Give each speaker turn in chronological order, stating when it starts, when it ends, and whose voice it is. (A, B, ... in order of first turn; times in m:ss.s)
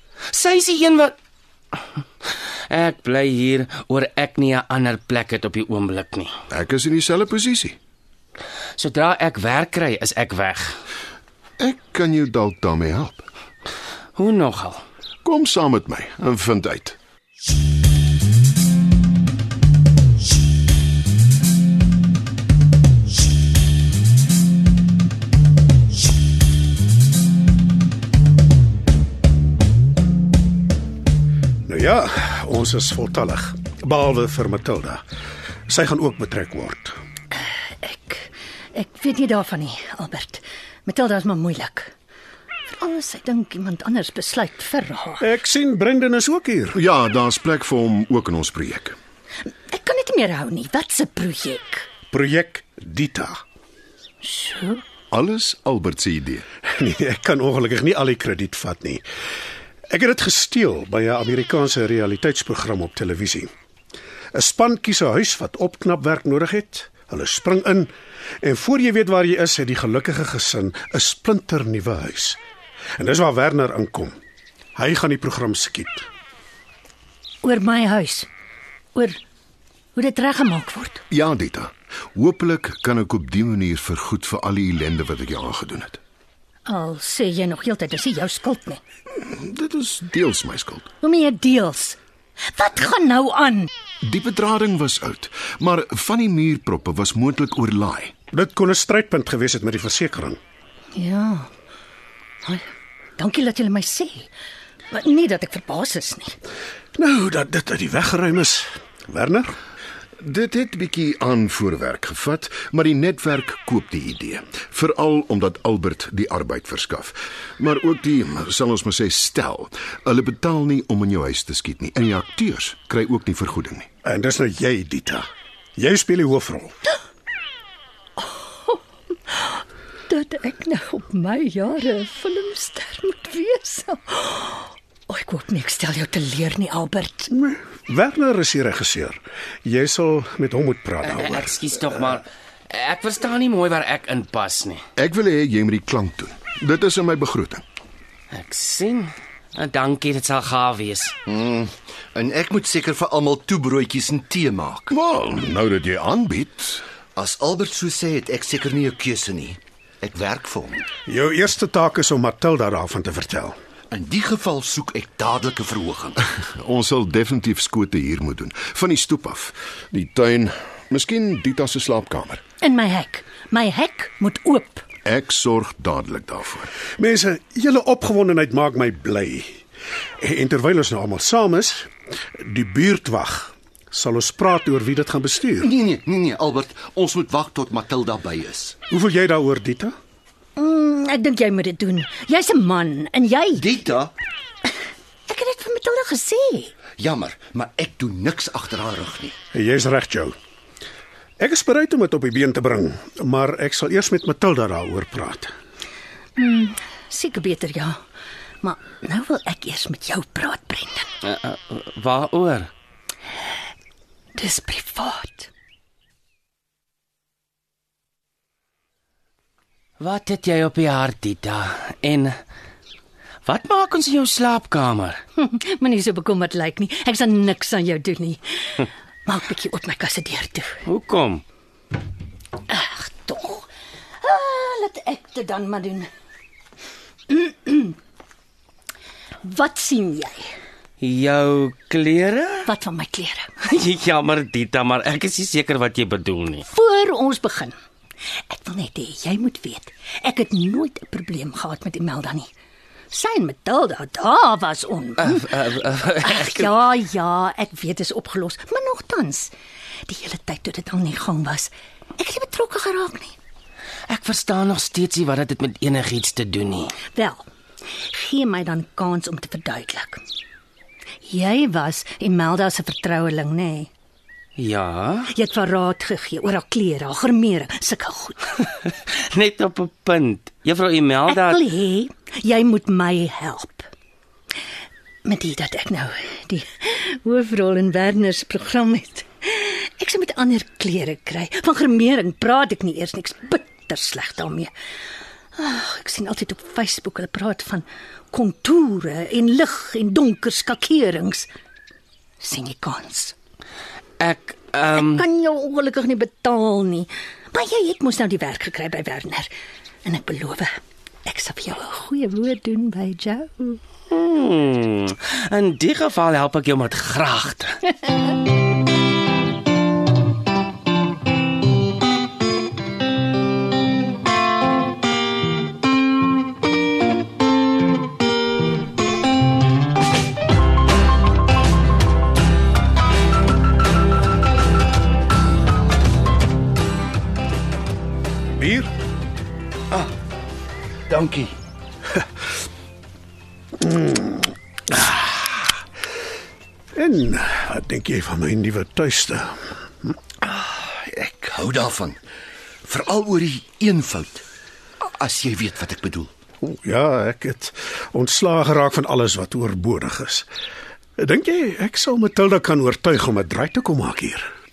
0:00.3-0:01.1 A
0:02.3-0:06.3 A
0:06.5-0:07.8 B
0:08.8-0:10.7 A
0:11.6-0:13.3 B
0:14.2-0:14.8 A
0:15.2-0:17.0 B
0:31.7-0:35.0 C
0:35.7-0:37.0 C
0:37.3-0:41.9 D
0:42.7-0:45.3 D
0:45.2-0:46.8 C
0:46.7-0:49.0 B
0:49.7-0:51.9 D
0:52.1-0:53.4 C
0:54.2-0:54.8 D
0:55.1-0:56.4 B
0:56.6-0:59.0 C
0:59.9-1:03.5 C
1:04.3-1:07.9 C
1:08.4-1:12.4 C
1:13.0-1:14.2 C
1:14.8-1:16.1 C
1:17.4-1:18.3 D
1:20.0-1:21.0 D
1:21.1-1:26.0 B
1:26.7-1:28.8 D
1:29.2-1:30.9 B
1:31.0-1:32.0 D
1:32.5-1:33.7 D
1:34.0-1:38.1 B
1:38.3-1:40.4 C
1:41.0-1:41.5 D
1:43.2-1:44.3 D
1:44.9-1:46.4 D
1:47.0-1:49.6 C
1:50.2-2:03.9 B
2:04.0-2:06.7 C
2:08.2-2:17.3 D
2:17.3-2:21.5 C
2:21.0-2:24.8 A
2:25.0-2:27.6 B
2:28.3-2:31.2 A
2:31.3-2:34.9 E
2:34.9-2:36.8 B
2:37.2-2:40.9 E
2:41.1-2:43.6 C
2:43.9-2:46.2 E
2:46.6-2:52.4 B
2:52.6-2:54.8 D
2:55.0-2:56.7 B
2:57.0-2:59.6 C
3:00.2-3:05.7 C
3:05.6-3:08.8 E
3:08.9-3:09.9 C
3:10.6-3:13.7 D
3:13.6-3:14.1 E
3:15.3-3:16.7 D
3:17.0-3:19.4 E
3:19.5-3:20.4 C
3:21.4-3:25.5 C
3:26.4-3:28.0 D
3:28.6-3:31.1 D
3:31.2-3:32.7 A
3:34.4-3:35.5 D
3:40.0-3:42.3 A
3:43.4-3:45.2 A
3:45.4-3:50.8 D
3:50.9-3:51.4 A
3:52.7-3:53.7 D
3:54.2-3:56.1 D
3:57.3-3:58.0 D
3:59.4-4:00.5 D
4:01.0-4:02.7 A
4:02.6-4:03.5 D
4:03.6-4:06.7 A
4:06.7-4:07.8 D
4:08.5-4:12.5 D
4:13.1-4:19.5 D
4:15.2-4:16.7 A
4:20.1-4:23.4 D
4:24.1-4:27.0 A
4:27.1-4:27.4 D
4:28.0-4:30.2 D
4:31.2-4:33.9 D
4:34.6-4:35.3 A
4:35.3-4:38.6 D
4:38.7-4:41.6 A
4:41.3-4:43.9 D
4:45.2-4:54.7 D
4:55.6-5:01.5 D
5:02.4-5:03.4 D
5:04.2-5:05.2 A
5:04.9-5:09.5 D
5:10.0-5:10.7 D
5:11.2-5:13.8 D
5:14.1-5:17.8 A
5:38.6-5:38.9 C
5:41.1-5:41.5 E
5:43.8-5:45.3 C
5:47.0-5:50.1 C
5:50.4-5:52.2 E
5:52.8-5:54.4 E
5:55.0-5:56.3 E
5:56.6-6:00.5 C
6:01.2-6:04.5 C